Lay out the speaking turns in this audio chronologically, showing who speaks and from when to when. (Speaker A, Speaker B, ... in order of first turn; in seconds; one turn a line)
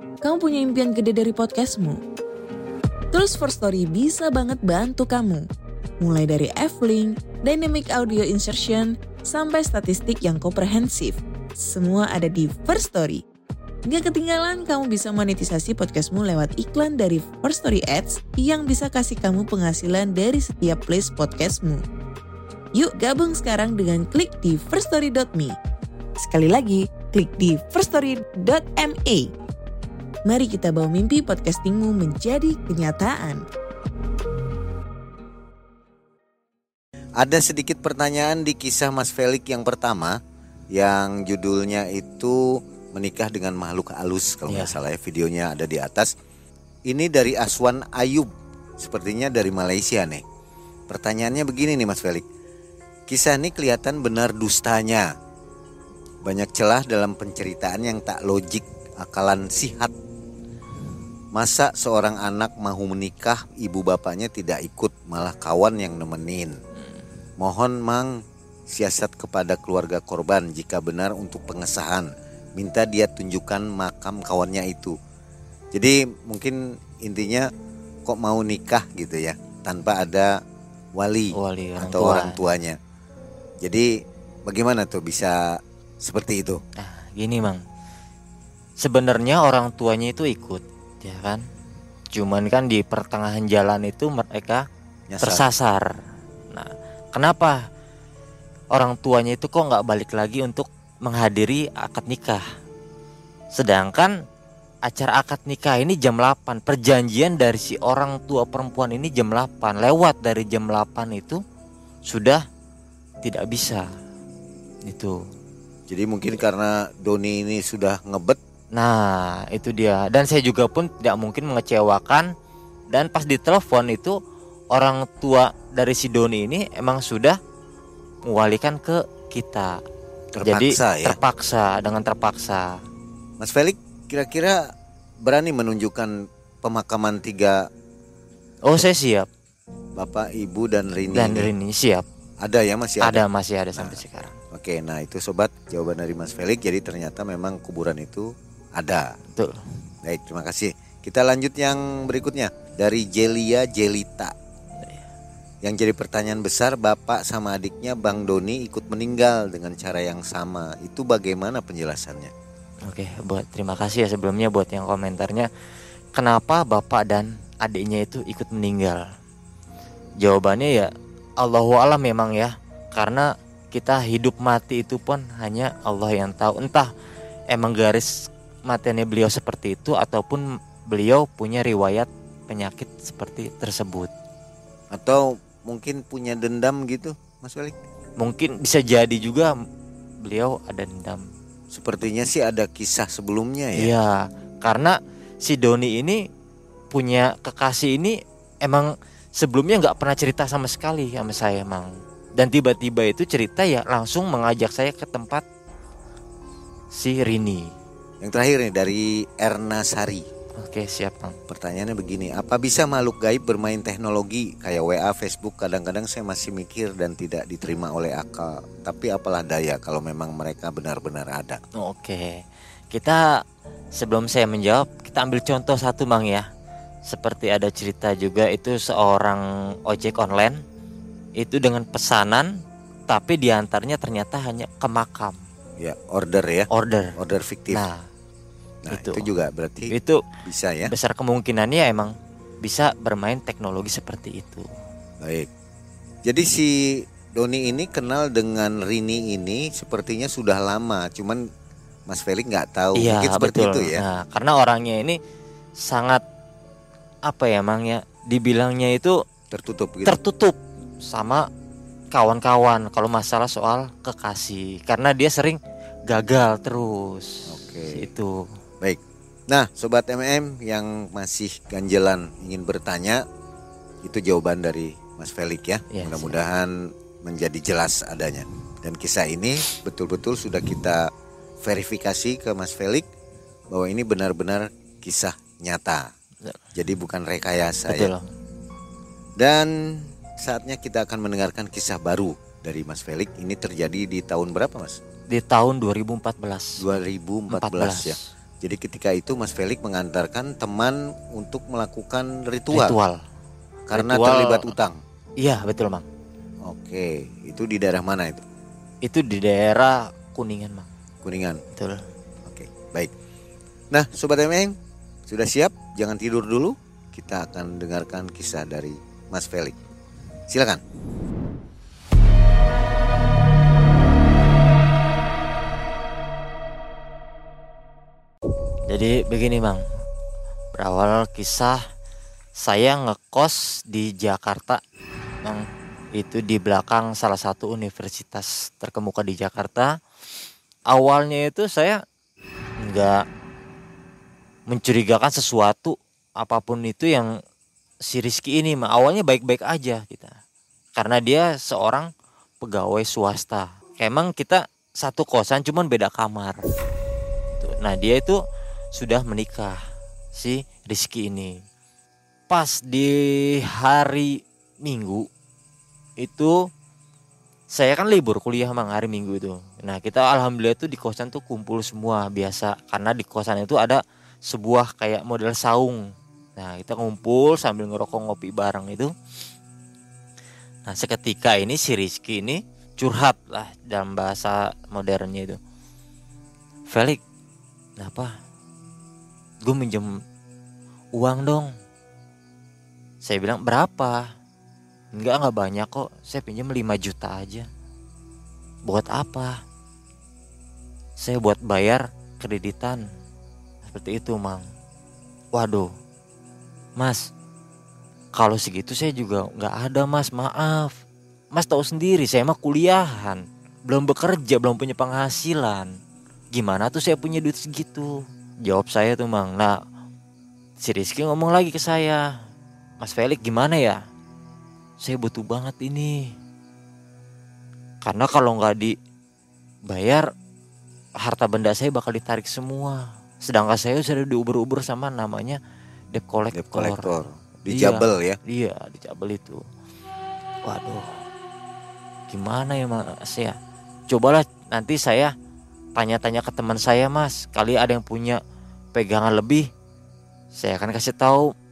Speaker A: 0.2-2.0
Speaker A: 3.1-5.5
Speaker A: 6.0-13.2
Speaker A: 13.8-21.8
Speaker A: 22.7-25.6
Speaker A: 26.2-29.3
Speaker A: 30.2-33.4
Speaker B: 37.2-40.2
Speaker B: 40.7-46.1
Speaker C: 44.5-44.7
Speaker B: 46.9-50.2
Speaker B: 50.9-52.2
Speaker B: 53.1-55.1
Speaker B: 56.2-59.9
Speaker B: 61.3-66.5
Speaker B: 67.4-68.1
Speaker B: 68.7-75.0
Speaker B: 75.7-77.5
Speaker B: 78.0-80.3
Speaker B: 81.0-82.8
Speaker C: 81.3-82.4
Speaker B: 83.6-83.9
Speaker B: 84.5-86.6
Speaker C: 86.8-87.6
Speaker C: 88.8-91.4
Speaker C: 92.1-94.6
Speaker B: 95.1-95.4
Speaker C: 95.2-95.9
Speaker C: 96.5-97.6
Speaker C: 98.7-102.4
Speaker C: 103.5-104.1
Speaker C: 104.8-111.4
Speaker C: 112.1-112.4
Speaker C: 113.2-113.9
Speaker C: 114.8-115.2
Speaker B: 115.9-118.4
Speaker C: 118.7-122.3
Speaker C: 122.9-124.2
Speaker C: 124.7-127.4
Speaker C: 128.3-129.8
Speaker B: 130.3-131.2
Speaker C: 130.4-132.8
Speaker B: 133.4-134.6
Speaker B: 135.2-137.6
Speaker C: 138.7-139.3
Speaker B: 140.0-141.5
Speaker C: 141.1-142.0
Speaker B: 142.4-143.2
Speaker C: 143.0-144.3
Speaker B: 144.5-149.1
Speaker C: 149.3-149.6
Speaker B: 150.0-154.3
Speaker C: 154.8-155.1
Speaker B: 155.6-162.3
Speaker C: 162.9-165.5
Speaker C: 166.2-169.0
Speaker C: 170.2-176.9
Speaker C: 177.5-178.1
Speaker C: 178.7-184.1
Speaker B: 184.9-187.7
Speaker C: 188.2-189.5
Speaker C: 190.2-191.2
Speaker B: 191.7-193.9
Speaker C: 193.8-196.2
Speaker C: 196.9-205.4
Speaker C: 206.9-207.7
Speaker B: 208.2-210.2
Speaker C: 210.6-211.4
Speaker B: 211.5-221.6
Speaker C: 221.8-223.4
Speaker C: 223.9-226.5
Speaker C: 227.1-230.6
Speaker C: 231.4-232.5
Speaker C: 233.1-235.4
Speaker B: 235.8-237.8
Speaker C: 236.7-237.2
Speaker C: 237.7-238.1
Speaker B: 238.8-239.9
Speaker C: 238.9-239.3
Speaker C: 239.9-240.2
Speaker B: 240.4-240.9
Speaker C: 240.9-244.7
Speaker B: 245.2-245.5
Speaker B: 246.2-251.4
Speaker B: 252.1-254.0
Speaker C: 252.9-255.2
Speaker C: 255.8-256.2
Speaker C: 257.3-259.2
Speaker B: 259.5-260.2
Speaker C: 260.1-261.4
Speaker C: 262.1-268.5
Speaker B: 267.5-268.1
Speaker B: 268.8-273.2
Speaker B: 274.0-281.1
Speaker C: 275.9-276.4
Speaker B: 281.6-283.1
Speaker B: 283.7-286.1
Speaker B: 286.7-288.1
Speaker C: 287.9-288.3
Speaker B: 289.4-295.0
Speaker C: 295.3-296.8
Speaker B: 296.8-303.0
Speaker C: 297.5-298.3
Speaker C: 302.7-303.2
Speaker B: 303.9-305.0
Speaker C: 303.9-304.7
Speaker C: 305.4-306.1
Speaker B: 306.6-308.4
Speaker C: 309.0-310.9
Speaker B: 311.2-311.6
Speaker C: 311.7-312.0
Speaker B: 312.4-313.1
Speaker B: 313.9-314.7
Speaker B: 315.3-319.7
Speaker B: 320.5-320.8
Speaker C: 328.9-329.8
Speaker C: 330.7-331.8
Speaker C: 332.6-334.8
Speaker C: 335.4-339.9
Speaker C: 340.9-342.0
Speaker C: 342.8-343.2
Speaker C: 344.7-347.3
Speaker C: 348.1-350.3
Speaker C: 351.0-352.1
Speaker C: 352.6-356.7
Speaker C: 357.6-358.4
Speaker C: 358.9-359.8
Speaker C: 360.3-361.6
Speaker C: 362.5-365.2
Speaker C: 366.2-366.6
Speaker C: 367.7-376.0
Speaker C: 376.6-379.1
Speaker C: 380.9-385.6
Speaker C: 386.9-387.2
Speaker C: 388.0-388.3
Speaker C: 389.6-390.2
Speaker C: 391.1-391.7
Speaker C: 393.2-394.3
Speaker C: 395.1-397.7
Speaker C: 398.9-399.6
Speaker C: 401.2-403.0
Speaker C: 403.8-404.6
Speaker C: 405.5-405.9
Speaker C: 407.0-407.3
Speaker C: 408.4-411.0
Speaker C: 411.5-415.9
Speaker C: 416.5-418.1
Speaker C: 418.7-419.8
Speaker C: 420.8-422.2
Speaker C: 423.0-424.0
Speaker C: 425.0-426.3
Speaker C: 428.0-428.9
Speaker C: 429.9-430.3
Speaker C: 431.2-435.6
Speaker C: 436.1-437.1
Speaker B: 436.5-438.4
Speaker C: 437.7-439.6
Speaker C: 440.6-441.1
Speaker C: 442.3-443.6
Speaker C: 444.1-445.3
Speaker C: 445.9-448.4
Speaker C: 448.9-449.7
Speaker C: 450.5-451.5